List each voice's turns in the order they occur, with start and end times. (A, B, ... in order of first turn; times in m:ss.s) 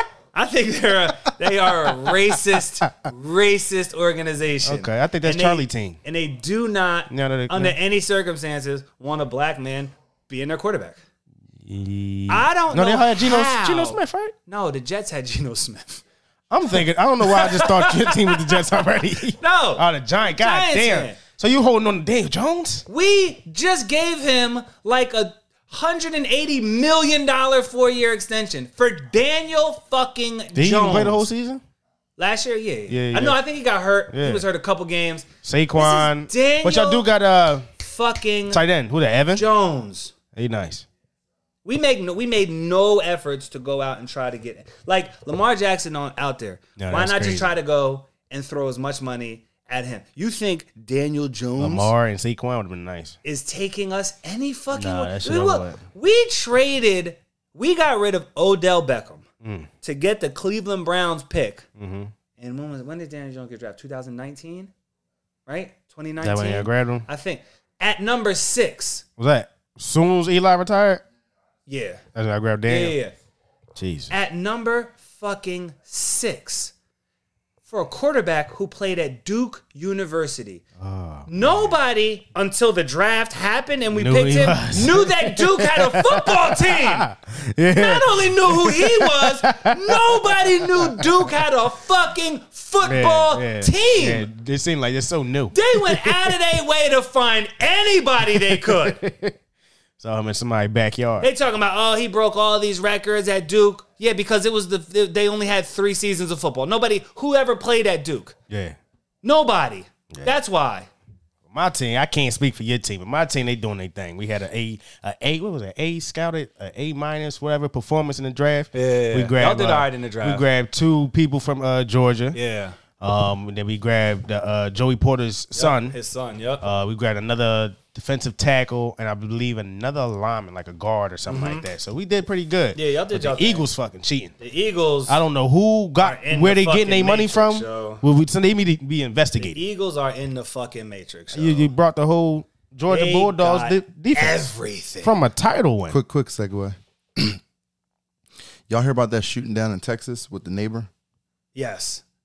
0:00.3-0:11.0 A
0:04.6-0:06.0 B
0:07.1-0:07.8 B
0:11.6-0:14.3 B
0:12.3-0:16.0 A
0:16.5-0:22.8 B
0:16.8-0:18.8 A
0:19.4-0:21.2 A
0:22.9-0:31.2 A
0:30.5-0:31.6 B
0:32.2-0:37.1 A
0:32.9-0:33.4 B
0:34.1-0:34.4 B
0:35.4-0:37.6 B
0:37.8-0:38.6 A
0:38.5-0:39.4 B
0:39.3-0:40.1 A
0:40.4-0:40.8 B
0:41.6-0:51.9 A
0:46.8-0:47.5 B
0:51.6-0:53.2 B
0:53.2-0:59.2 A
0:54.7-0:55.8 B
0:59.4-0:59.7 B
0:59.8-1:01.6 A
1:01.8-1:02.1 B
1:02.4-1:04.7 A
1:05.5-1:09.0 A
1:06.2-1:07.0 B
1:09.2-1:11.0 B
1:11.7-1:12.0 A
1:12.2-1:13.0 B
1:12.7-1:13.1 A
1:13.8-1:14.1 B
1:14.1-1:16.7 A
1:17.7-1:20.6 A
1:20.8-1:21.7 B
1:21.3-1:27.1 A
1:23.9-1:31.1 B
1:27.7-1:34.2 A
1:32.8-1:36.3 B
1:35.5-1:39.0 A
1:38.3-1:39.3 B
1:40.0-1:41.3 B
1:41.2-1:48.3 A
1:48.5-1:48.8 B
1:49.2-1:50.9 A
1:51.5-2:02.4 B
1:58.7-2:00.4 A
2:02.3-2:02.8 A
2:03.0-2:06.0 B
2:05.5-2:06.6 A
2:06.6-2:14.3 B
2:11.3-2:11.6 A
2:12.7-2:13.6 A
2:14.4-2:15.2 A
2:15.1-2:19.6 B
2:16.0-2:18.0 A
2:19.4-2:21.7 A
2:21.3-2:24.4 B
2:22.9-2:25.1 A
2:25.0-2:26.0 B
2:25.9-2:27.4 C
2:28.7-2:30.9 C
2:31.5-2:32.0 A